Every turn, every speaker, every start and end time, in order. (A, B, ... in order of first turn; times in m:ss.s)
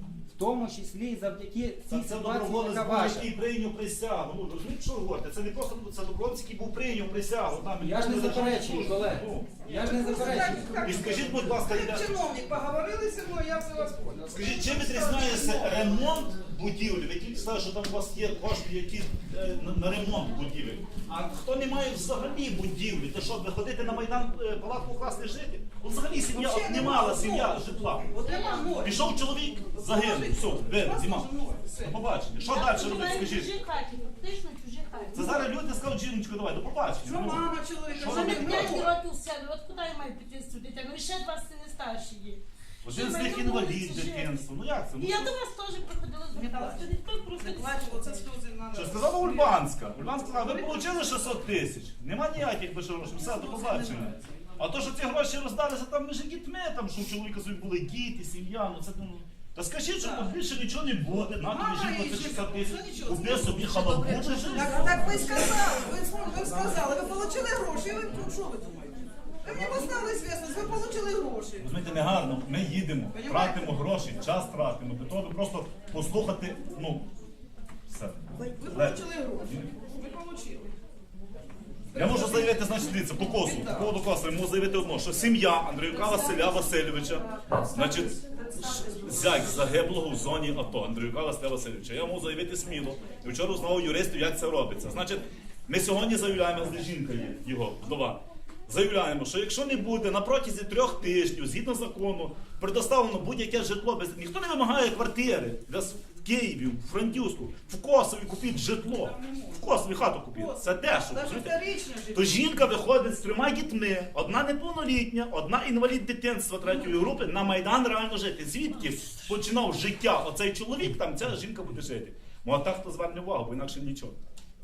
0:00.3-0:03.3 A
0:01.9-0:09.6 B
0:07.8-0:10.8 A
0:09.6-0:16.0 C
0:10.8-0:12.1 B
0:14.3-0:28.1 B
0:26.3-0:27.6 C
0:28.1-0:29.1 C
0:28.3-0:28.6 D
0:28.8-0:33.5 B
0:29.7-0:32.0 C
0:32.4-0:35.5 D
0:35.1-0:38.8 B
0:37.0-0:38.9 C
0:38.0-0:44.5 D
0:42.8-0:45.3 B
0:45.0-0:48.3 D
0:46.3-0:49.6 C
0:48.7-1:05.2 B
0:50.1-0:51.3 C
0:53.1-0:54.2 C
1:00.0-1:00.3 C
1:01.2-1:11.7 C
1:04.4-1:05.5 D
1:11.6-1:17.1 B
1:13.1-1:13.7 C
1:17.9-1:19.7 B
1:18.5-1:20.7 C
1:21.9-1:23.9 C
1:21.9-1:51.6 B
1:26.0-1:29.7 C
1:48.9-1:49.6 C
1:50.3-1:52.7 C
1:52.1-2:04.2 B